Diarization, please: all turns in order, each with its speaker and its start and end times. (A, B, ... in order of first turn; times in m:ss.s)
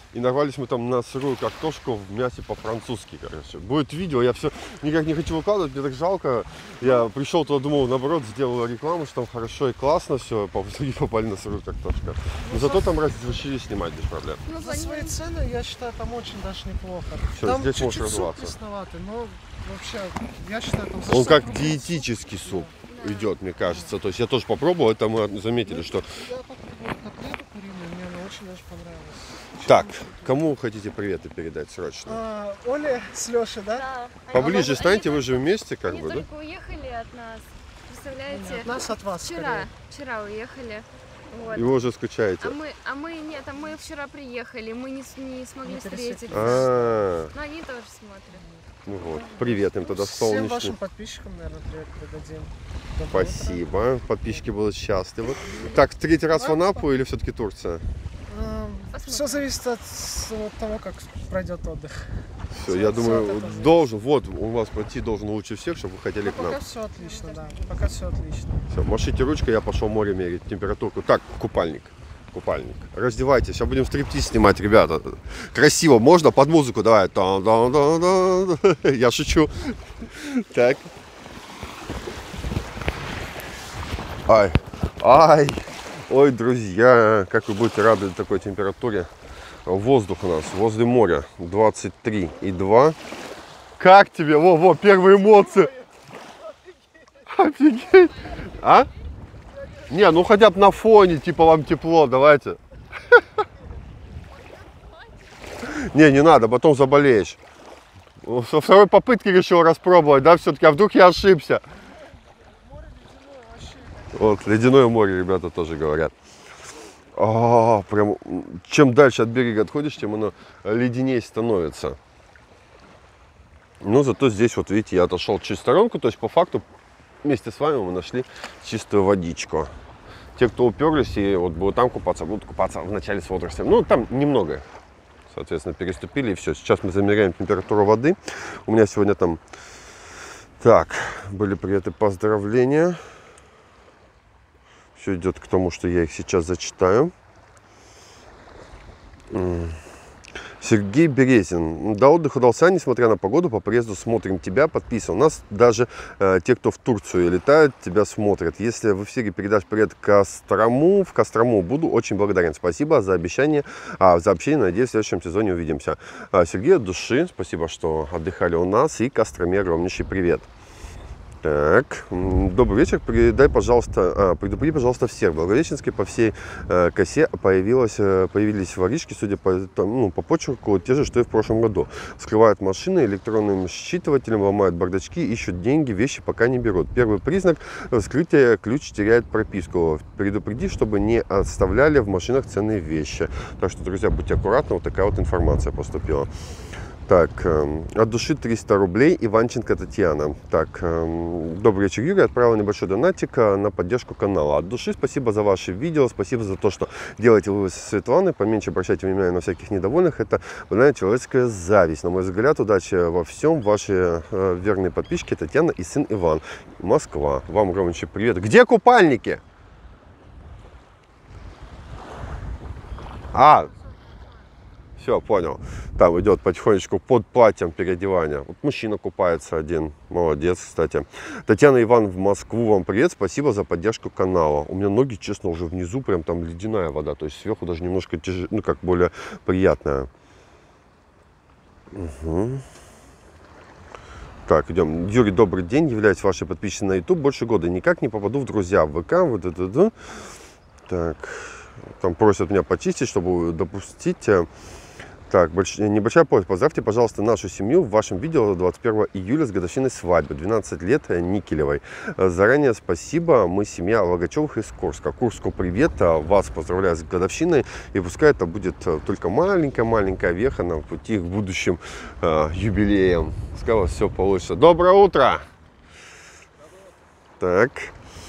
0:00.1-0:14.4 A
0:12.4-0:13.0 B
0:14.4-0:15.2 C
0:14.6-0:22.8 B
0:17.4-0:18.6 A
0:21.1-0:26.1 A
0:22.8-0:23.3 C
0:23.7-0:23.9 B
0:25.7-0:30.4 B
0:29.6-0:32.2 A
0:32.1-0:34.7 B
0:33.7-0:41.8 C
0:34.3-0:36.3 A
0:38.3-0:39.7 B
0:41.5-0:42.6 A
0:42.4-0:46.7 C
0:45.6-0:47.0 B
0:46.3-0:47.3 A
0:47.3-0:48.4 C
0:48.3-0:53.7 B
0:48.9-0:50.8 A
0:53.1-0:57.8 A
0:54.2-0:54.5 B
0:55.4-0:55.8 C
0:56.3-0:56.9 B
0:58.3-1:03.8 B
0:58.9-0:59.5 C
1:02.5-1:06.6 A
1:06.2-1:08.7 B
1:06.9-1:08.0 C
1:08.7-1:20.9 A
1:24.3-1:29.1 A
1:29.7-1:33.0 A
1:33.8-1:35.8 A
1:35.1-1:35.6 B
1:37.3-1:38.9 A
1:39.9-1:42.6 A
1:45.6-1:47.4 A
1:48.2-1:51.6 A
1:52.5-1:54.5 B
1:54.1-1:56.1 A
1:57.2-2:02.0 A
2:03.8-2:06.6 A
2:07.2-2:09.7 A
2:10.4-2:14.7 A
2:15.3-2:19.4 A
2:20.6-2:23.0 A
2:25.0-2:27.1 A
2:29.3-2:29.8 A
2:30.6-2:50.5 A
2:51.4-3:16.3 A
3:17.1-3:39.4 A
3:43.3-3:43.7 A
3:45.0-4:00.1 A
4:01.9-4:02.7 A
4:04.5-4:10.0 A
4:10.9-4:14.5 A
4:15.3-4:35.5 A
4:37.4-4:37.9 A